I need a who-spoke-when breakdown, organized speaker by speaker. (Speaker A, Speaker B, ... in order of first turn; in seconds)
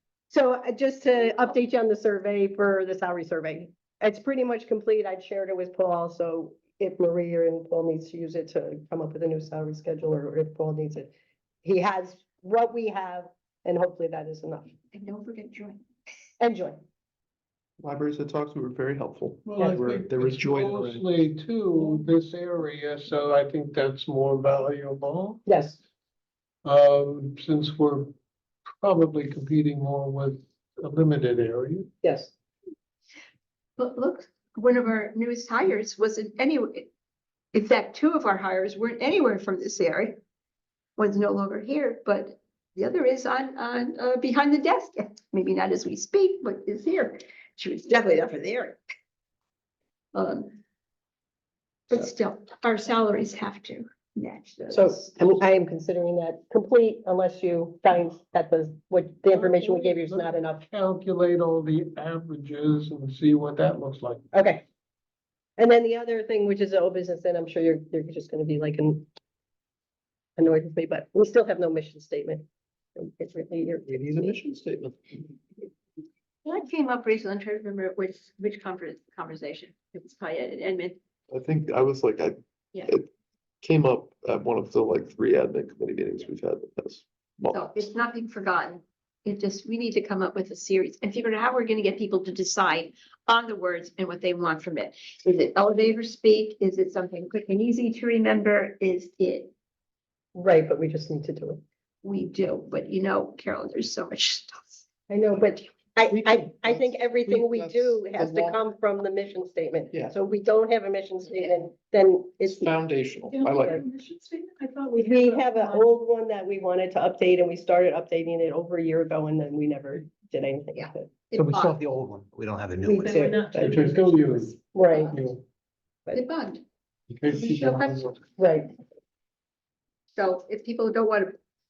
Speaker A: 0.3-11.1, 11.6-14.7, 16.4-16.8, 25.4-25.8, 32.0-32.3, 54.7-60.6, 64.3-64.6, 65.6-69.1, 70.4-72.4, 73.0-74.3, 100.3-101.6, 105.1-112.7, 115.0-121.1, 122.8-123.8, 124.7-125.1, 128.4-128.7
Speaker B: 14.9-15.8, 33.8-36.9, 37.5-40.2, 41.0-48.8, 50.1-50.5, 51.9-55.4, 76.4-81.0, 87.5-99.5, 102.0-104.8, 120.8-121.8, 126.1-126.6, 127.3-128.1, 130.2-131.3
Speaker C: 17.8-21.1, 73.9-75.3, 81.3-82.4, 83.6-87.6, 106.1-108.6, 112.5-113.8
Speaker D: 19.4-25.4, 26.6-28.1, 28.8-31.9, 59.3-64.2, 123.5-125.4, 127.1-128.2
Speaker E: 113.3-115.9, 122.9-124.6
Speaker F: 121.3-123.3